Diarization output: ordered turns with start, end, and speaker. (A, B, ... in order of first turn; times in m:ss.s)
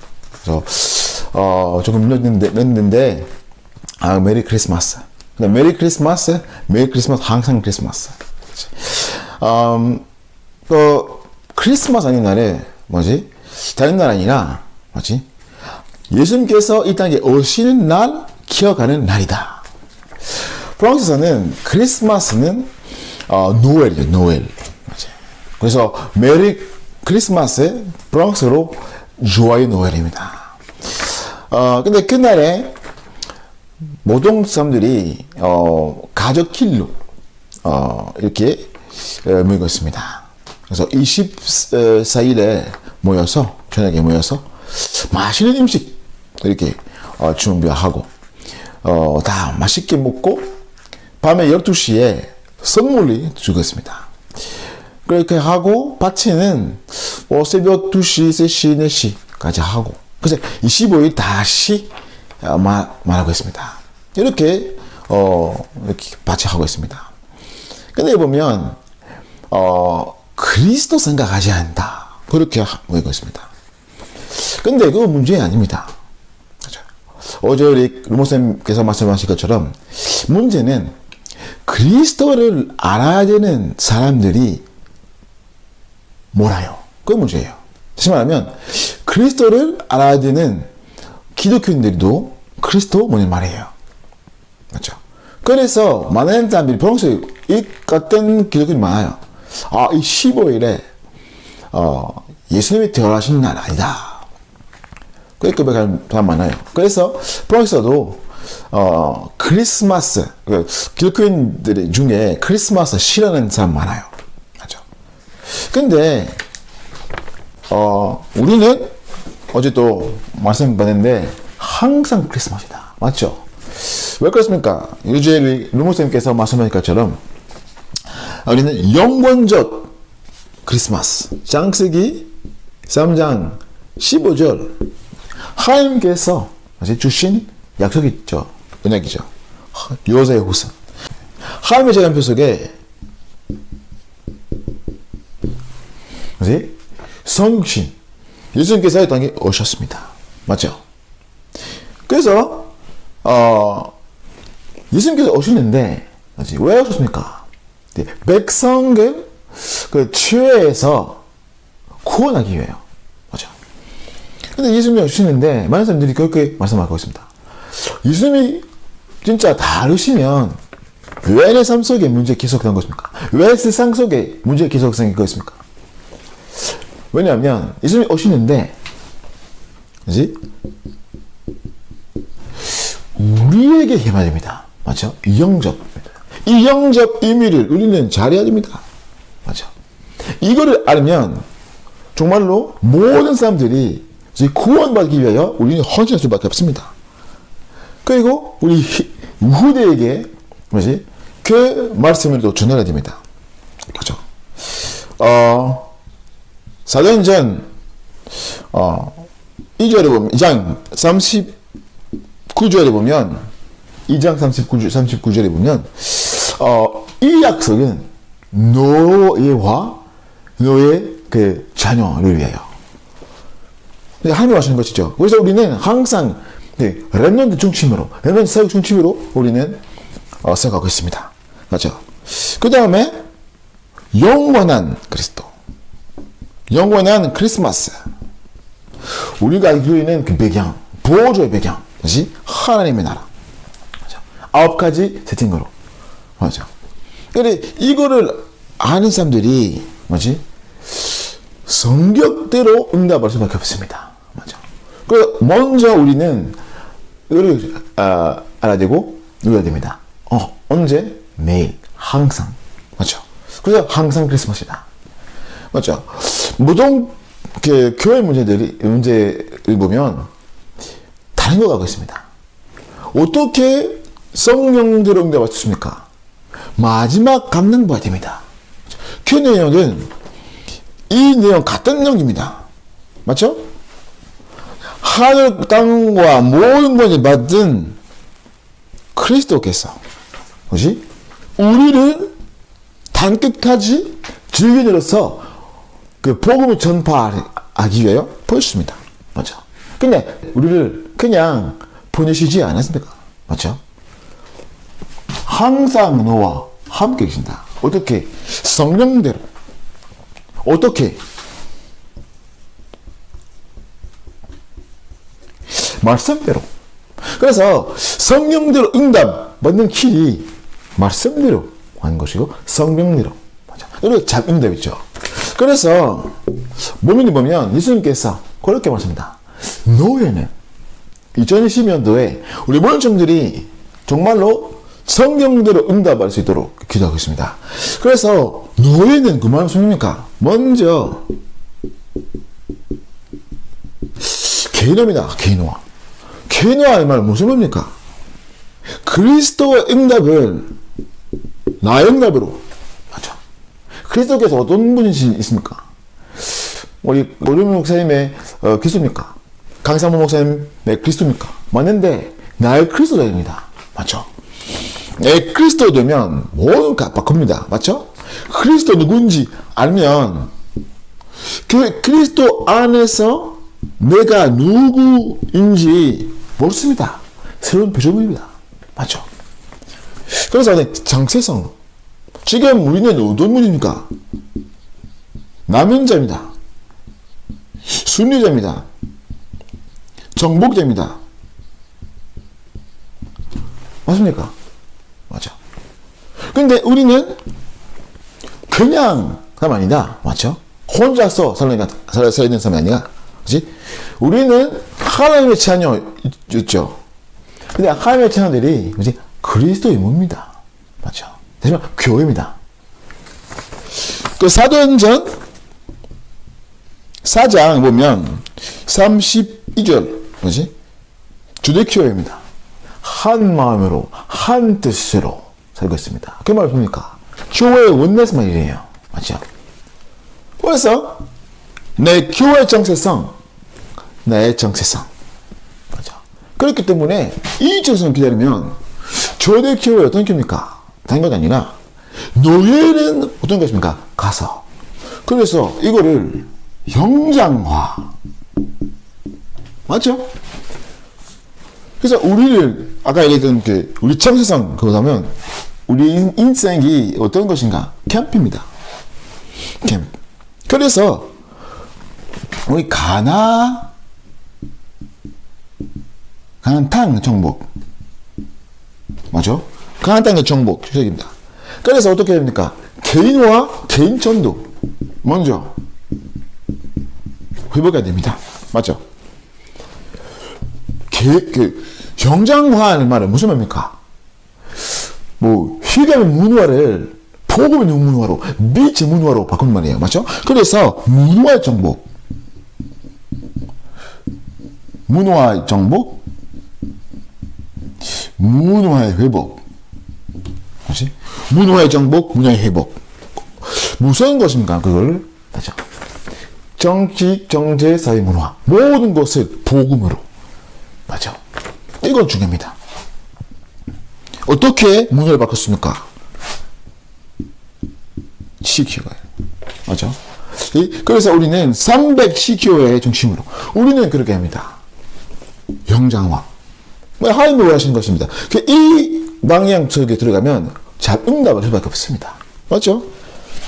0:00.4-0:03.3 A
0:04.0-0:10.0 A
0:10.7-0:15.2 A
0:16.1-0:19.6 A
0:20.8-0:22.7 A
0:23.3-0:32.8 A
0:34.0-0:36.9 A
0:37.6-0:48.1 A
0:48.8-0:50.5 A
0:51.2-0:54.1 A
0:55.0-1:07.1 A
1:07.9-1:08.8 A
1:09.5-1:13.5 A
1:14.3-1:15.9 A
1:17.4-1:20.9 A
1:21.6-1:24.6 A
1:26.3-1:30.7 A
1:31.4-1:33.7 A
1:34.7-1:40.8 A
1:41.7-1:44.2 A
1:45.4-1:54.8 A
1:55.5-1:56.4 A
1:57.7-1:58.9 A
1:59.5-2:07.2 A
2:08.4-2:09.9 A
2:10.6-2:12.3 A
2:12.9-2:14.8 A
2:15.5-2:20.7 A
2:21.4-2:22.7 A
2:26.4-2:27.9 A
2:28.5-2:30.8 A
2:32.1-2:33.9 A
2:34.9-2:41.2 A
2:42.0-2:43.5 A
2:44.5-2:48.6 A
2:49.2-2:50.6 A
2:51.2-2:55.6 A
2:57.1-2:58.7 A
3:00.0-3:00.4 A
3:03.1-3:08.8 A
3:09.4-3:09.7 A
3:10.4-3:11.4 A
3:12.1-3:16.9 A
3:18.0-3:23.2 A
3:23.9-3:24.2 A
3:24.7-3:25.9 A
3:26.8-3:27.7 A
3:28.7-3:29.3 A
3:29.8-3:31.5 A
3:32.5-3:33.5 A
3:34.1-3:40.0 A
3:40.6-3:42.7 A
3:44.2-3:49.8 A
3:50.4-3:53.2 A
3:54.1-3:55.5 A
3:56.7-3:57.9 A
3:59.1-4:03.3 A
4:04.1-4:05.7 A
4:06.4-4:06.7 A
4:07.3-4:16.6 A
4:17.3-4:24.8 A
4:25.7-4:30.3 A
4:31.4-4:32.2 A
4:33.1-4:36.1 A
4:36.8-4:38.4 A
4:39.2-4:40.1 A
4:41.1-4:42.6 A
4:43.2-4:43.6 A
4:45.0-4:48.0 A
4:49.1-4:50.0 A
4:50.7-4:51.0 A
4:51.6-4:52.3 A
4:53.1-4:55.5 A
4:56.2-5:03.8 A
5:05.4-5:09.4 A
5:10.6-5:11.2 A
5:15.7-5:16.6 A
5:17.2-5:30.5 A
5:31.3-5:41.3 A
5:44.2-5:45.8 A
5:46.5-5:47.9 A
5:49.0-5:50.7 A
5:51.8-5:53.4 A
5:54.0-5:55.8 A
5:56.4-6:04.3 A
6:05.2-6:10.5 A
6:11.6-6:19.2 A
6:20.3-6:21.7 A
6:22.4-6:24.1 A
6:25.7-6:26.5 A
6:27.9-6:28.8 A
6:30.3-6:31.2 A
6:34.0-6:34.5 A
6:35.3-6:35.6 A
6:36.5-6:37.4 A
6:38.7-6:47.0 A
6:47.7-6:52.6 A
6:54.2-6:55.3 A
6:57.2-7:00.7 A
7:01.6-7:02.4 A
7:03.0-7:09.4 A
7:10.6-7:11.3 A
7:12.0-7:13.3 A
7:14.2-7:15.1 A
7:15.9-7:21.8 A
7:22.3-7:24.6 A
7:25.2-7:28.1 A
7:29.9-7:30.3 A
7:32.0-7:35.3 A
7:35.9-7:38.7 A
7:39.8-7:40.1 A
7:40.7-7:41.3 A
7:42.6-7:43.9 A
7:46.6-7:47.7 A
7:49.3-7:54.7 A
7:55.2-7:55.8 A
7:57.7-7:59.0 A
8:01.1-8:04.0 A
8:05.4-8:12.0 A
8:15.1-8:16.2 A
8:18.4-8:19.6 A
8:20.8-8:23.0 A
8:23.6-8:25.8 A
8:26.8-8:30.2 A
8:31.1-8:31.4 A
8:32.0-8:32.8 A
8:34.4-8:36.0 A
8:38.6-8:39.2 A
8:39.8-8:44.8 A
8:45.9-8:46.5 A
8:47.2-8:53.1 A